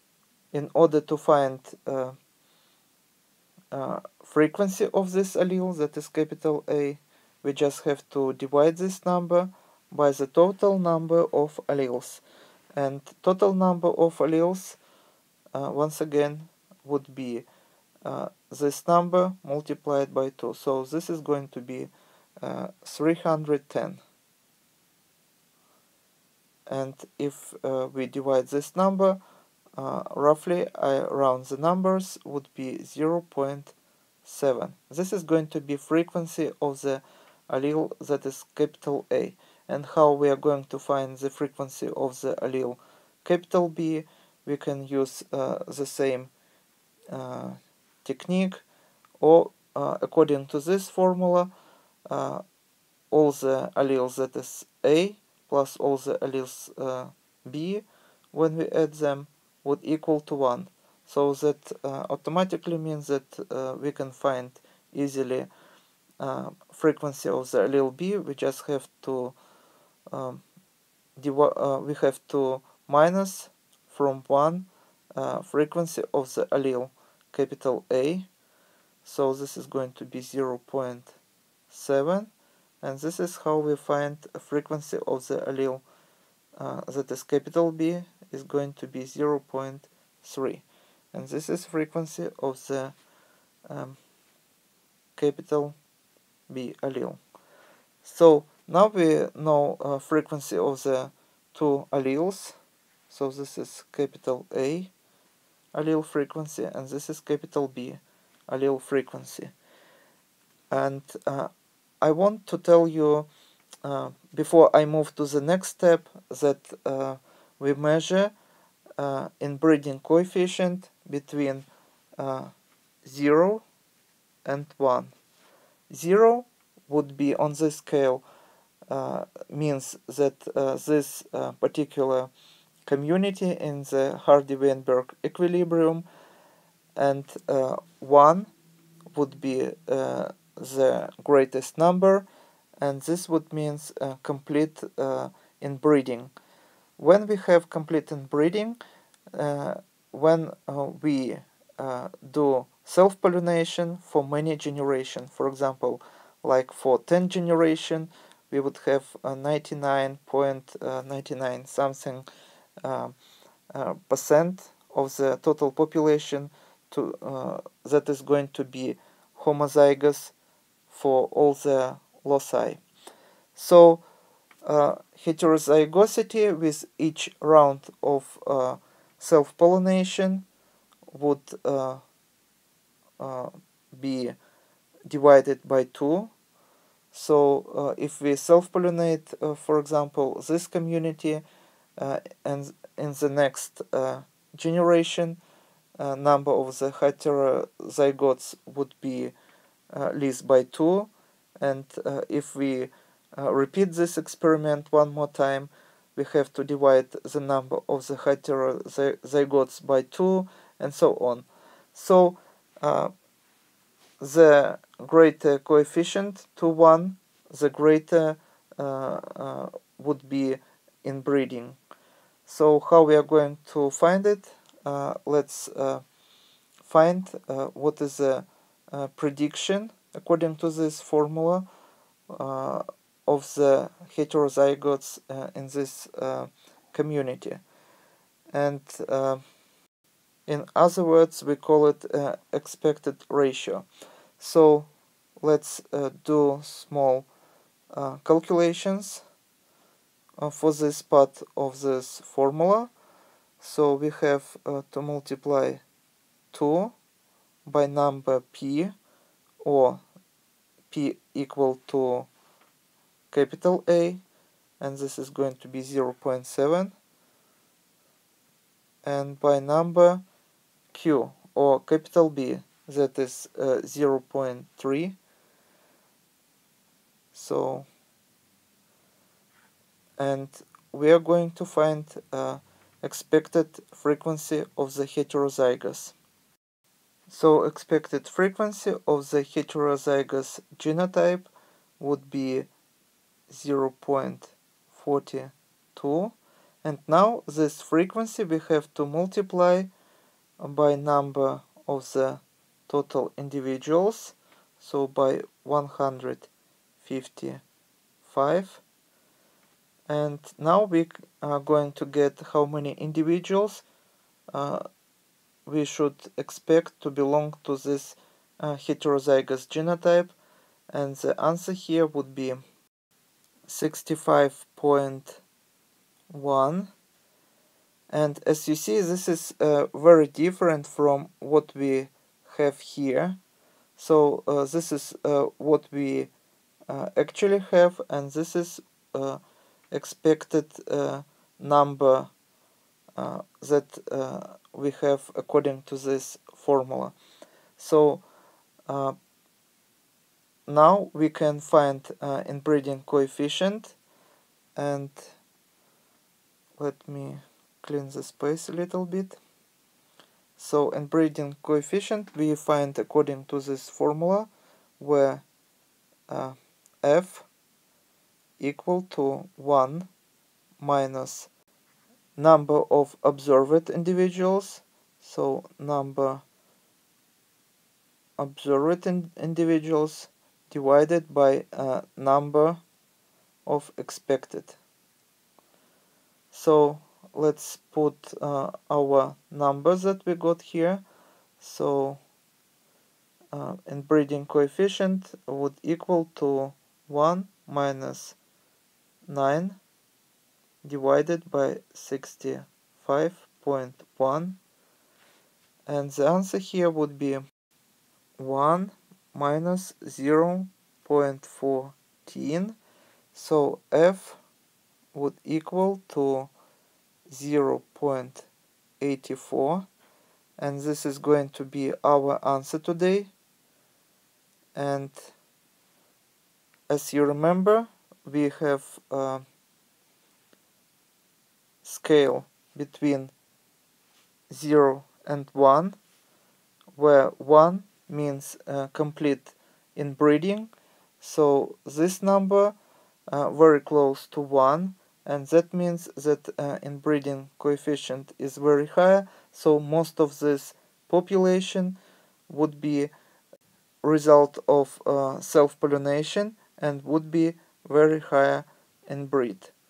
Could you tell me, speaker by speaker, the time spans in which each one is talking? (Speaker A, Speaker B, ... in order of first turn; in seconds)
Speaker A: 0.5-2.2, 3.7-12.2, 12.8-14.8, 15.5-17.5, 18.1-24.0, 26.7-29.2, 29.8-46.3, 47.1-48.6, 49.2-51.5, 52.1-52.4, 53.1-65.5, 66.2-69.4, 70.1-70.4, 71.2-78.3, 79.0-81.2, 81.7-82.3, 82.8-85.8, 86.6-93.0, 93.7-94.0, 95.2-95.8, 96.5-97.2, 98.0-102.6, 103.1-104.9, 105.7-109.5, 110.7-113.3, 113.8-118.3, 119.0-121.7, 122.2-122.5, 123.0-123.6, 124.5-125.1, 125.9-128.2, 128.9-132.3, 132.9-136.1, 137.0-138.5, 139.1-142.3, 142.8-146.3, 147.0-148.8, 149.3-162.3, 162.8-163.2, 163.7-170.3, 170.9-172.8, 173.6-174.0, 174.6-180.4, 181.1-182.0, 183.2-184.4, 185.1-186.3, 187.1-191.4, 192.0-195.4, 196.0-199.3, 199.9-213.1, 214.2-221.8, 222.5-226.0, 226.9-231.7, 232.3-237.6, 238.5-239.4, 240.5-243.8, 244.4-244.9, 245.4-247.3, 247.9-249.2, 250.4-252.9, 253.6-255.8, 256.5-256.9, 257.6-258.9, 259.6-260.0, 260.9-262.3, 263.3-264.2, 264.8-266.9, 269.0-270.2, 270.9-275.2, 277.3-277.9, 280.2-286.2, 287.3-292.7, 293.5-299.9, 300.6-306.5, 307.0-307.6, 308.2-308.8, 310.1-313.9, 314.5-314.8, 315.7-320.3, 320.9-322.6, 323.7-325.4, 326.3-326.9, 328.1-333.4, 334.0-336.3, 336.9-339.4, 339.9-342.3, 343.2-347.1, 347.8-348.2, 348.9-349.2, 350.7-354.0, 354.8-355.3, 356.8-359.4, 360.6-364.5, 365.0-365.4, 366.3-367.5, 368.6-370.1, 370.8-371.5, 372.4-376.4, 378.4-382.8, 383.7-384.8, 386.5-391.0, 391.6-392.2, 393.5-398.4, 399.3-399.8, 400.8-404.6, 405.9-407.4, 408.4-412.8, 413.3-414.4, 415.1-416.5, 417.3-418.5, 419.0-419.9, 420.6-423.3, 424.8-425.3, 426.9-429.4, 431.8-433.3, 434.5-436.0, 437.0-442.8, 443.3-452.0, 452.5-453.1, 454.0-459.7